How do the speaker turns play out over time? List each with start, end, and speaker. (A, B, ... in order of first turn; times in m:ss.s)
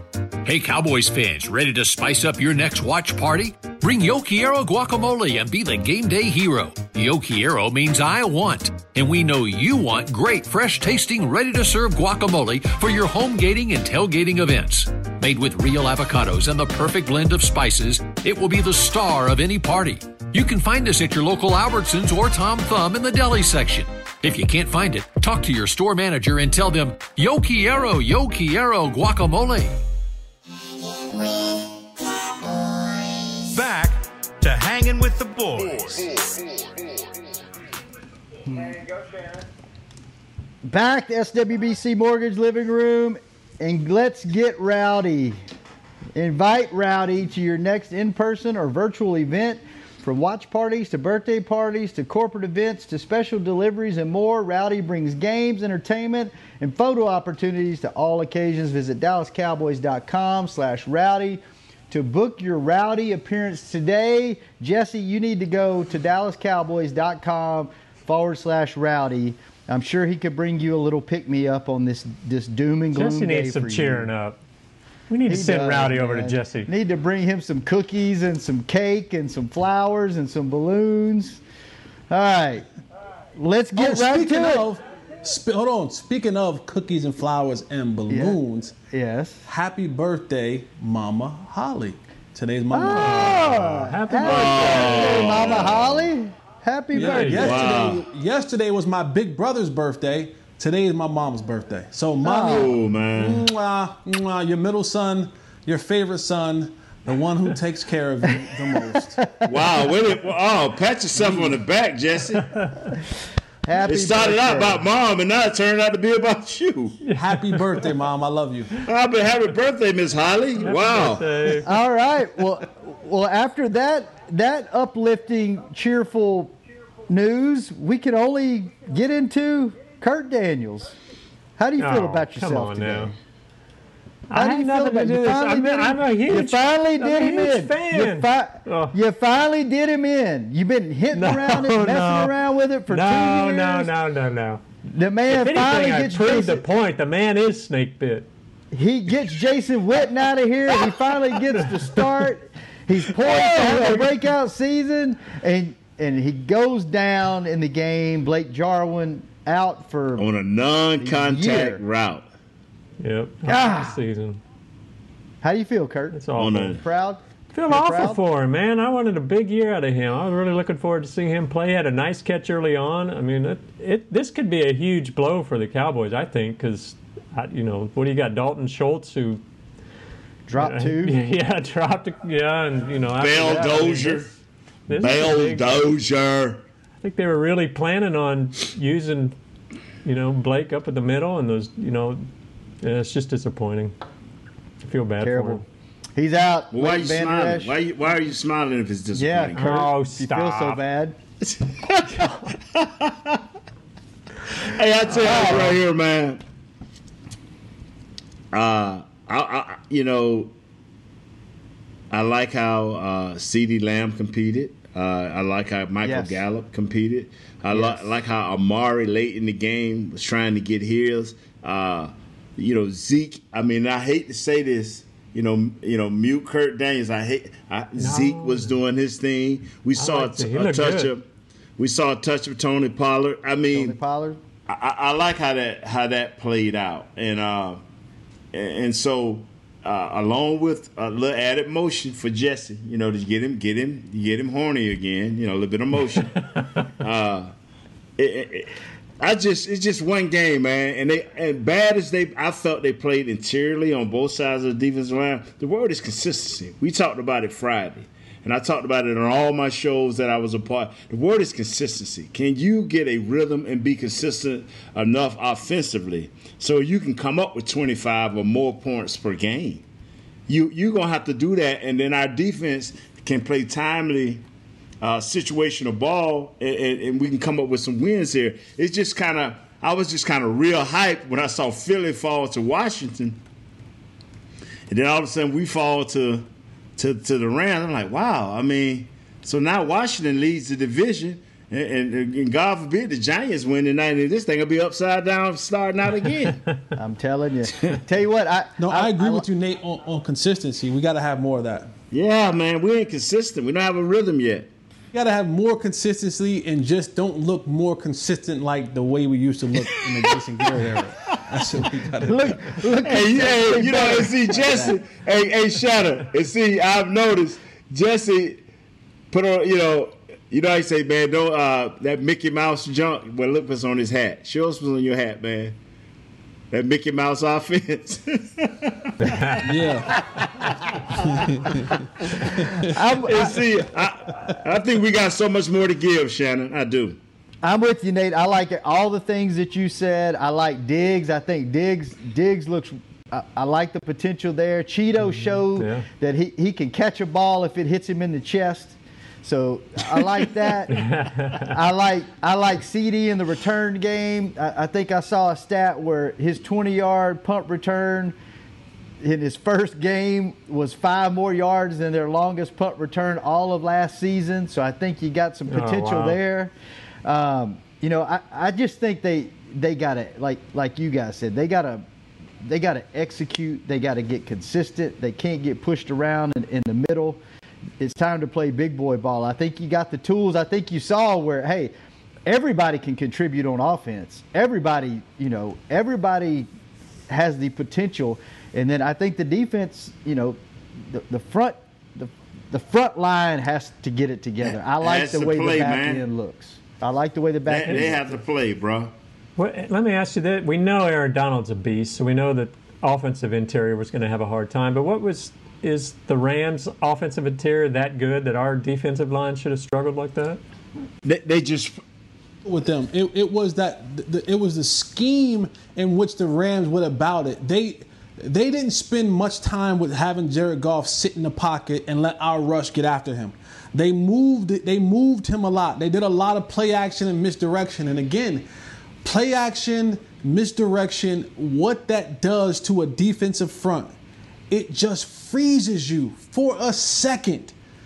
0:00.4-0:29.8 A
0:33.5-0:36.2 B
0:38.5-0:38.8 C
0:40.6-0:45.4 C
0:46.2-1:14.1 C
1:12.9-1:14.4 D
1:15.1-1:16.7 D
1:15.3-1:21.4 C
1:22.1-1:22.7 C
1:23.4-1:24.6 C
1:23.8-1:28.8 E
1:28.1-1:28.4 C
1:28.9-1:29.4 C
1:29.5-1:33.5 E
1:32.7-1:37.8 C
1:32.8-1:35.6 D
1:34.2-1:36.1 F
1:36.9-1:49.4 E
1:36.9-1:37.7 D
1:37.4-1:38.0 F
1:42.2-1:42.8 C
1:42.4-1:43.5 F
1:49.2-1:49.5 C
1:49.4-1:52.5 F
1:51.2-1:51.5 C
1:52.6-1:52.9 D
1:53.7-1:54.8 C
1:53.8-1:57.0 F
1:57.0-1:57.9 D
1:57.1-1:58.8 E
1:58.8-2:01.6 F
2:00.6-2:01.7 D
2:01.6-2:06.5 C
2:07.1-2:11.0 C
2:11.6-2:13.1 C
2:11.8-2:13.1 D
2:14.3-2:19.0 D
2:14.3-2:23.9 C
2:21.1-2:22.4 D
2:22.9-2:24.6 D
2:24.9-2:26.6 C
2:25.3-2:28.3 D
2:28.7-2:40.3 C
2:33.2-2:34.1 F
2:40.2-2:42.2 F
2:41.0-2:41.8 C
2:43.0-2:44.4 D
2:43.5-2:44.0 C
2:45.4-2:48.2 C
2:46.1-2:46.7 D
2:46.4-2:46.8 F
2:47.5-2:59.4 D
3:00.5-3:01.2 C
3:00.6-3:04.3 D
3:03.2-3:04.3 F
3:04.9-3:05.8 D
3:04.9-3:06.6 F
3:07.0-3:09.4 D
3:10.0-3:12.3 D
3:12.8-3:13.9 D
3:14.8-3:15.6 D
3:15.2-3:15.6 C
3:16.2-3:17.8 C
3:16.7-3:19.7 F
3:19.1-3:21.2 C
3:19.6-3:20.8 D
3:21.5-3:23.4 F
3:24.6-3:26.4 F
3:25.1-3:25.8 C
3:28.5-3:30.5 F
3:32.1-3:51.2 F
3:36.0-3:36.4 C
3:37.7-3:38.1 C
3:48.0-3:48.7 D
3:50.0-3:51.1 D
3:51.8-3:54.0 F
3:53.7-3:54.4 C
3:54.7-3:57.8 F
3:58.5-4:06.4 F
4:07.0-4:07.5 F
4:08.2-4:29.8 F
4:30.5-4:34.4 F
4:35.0-4:43.4 F
4:44.9-4:56.6 F
4:57.0-4:59.5 C
4:58.8-5:01.9 E
5:02.1-5:04.7 F
5:05.1-5:12.8 E
5:12.3-5:15.0 C
5:13.0-5:18.6 F
5:19.3-5:25.8 F
5:26.7-5:31.5 F
5:29.3-5:29.6 D
5:29.6-5:30.2 E
5:31.3-5:32.0 E
5:32.7-5:33.6 C
5:33.2-5:37.2 F
5:37.6-5:58.4 C
5:45.3-5:46.0 D
5:50.9-5:51.7 D
5:59.2-6:06.7 C
6:05.7-6:06.4 D
6:07.2-6:12.0 C
6:12.6-6:17.4 C
6:18.0-6:21.9 C
6:22.5-6:26.7 C
6:27.3-6:38.4 C
6:35.0-6:36.2 F
6:37.7-6:39.1 F
6:39.6-6:50.6 D
6:51.2-6:52.0 F
6:52.6-7:08.7 E
7:09.2-7:14.2 E
7:14.7-7:17.7 E